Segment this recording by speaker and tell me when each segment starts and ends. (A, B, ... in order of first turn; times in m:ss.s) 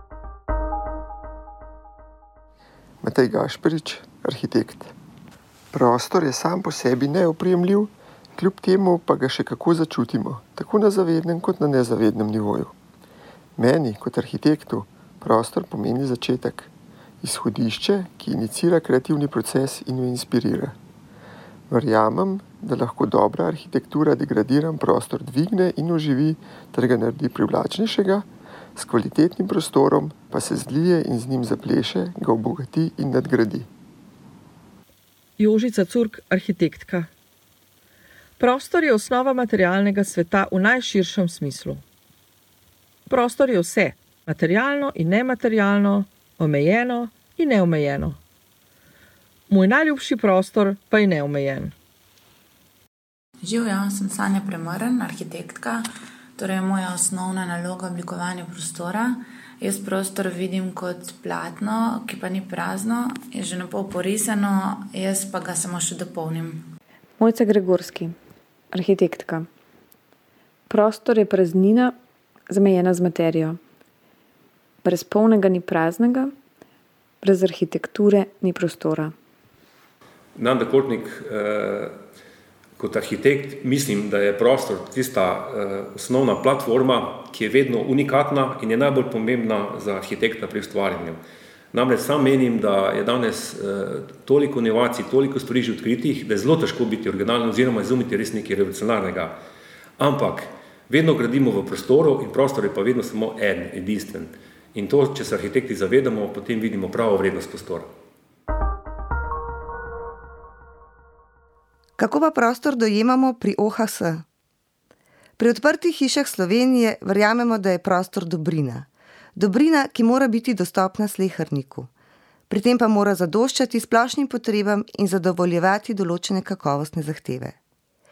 0:03.0-0:04.9 A
0:05.7-0:12.7 A
0:13.6-0:20.8 A
0:21.7-0:33.7 A
0:35.4-0:37.1 B
0:38.4-0:41.8 B
0:43.1-0:48.2 B
0:49.5-0:51.7 B
0:53.4-0:55.8 C
0:56.4-1:06.7 C
1:07.2-1:08.1 D
1:08.7-1:09.5 D
1:10.7-1:12.0 D
1:12.5-1:13.6 D
1:14.8-1:16.3 D
1:17.2-1:19.1 D
1:20.4-1:21.9 E
1:22.8-1:31.2 E
1:31.7-1:39.4 E
1:40.0-1:47.9 E
1:52.0-1:54.2 F
1:55.4-2:01.9 F
2:02.5-2:07.6 F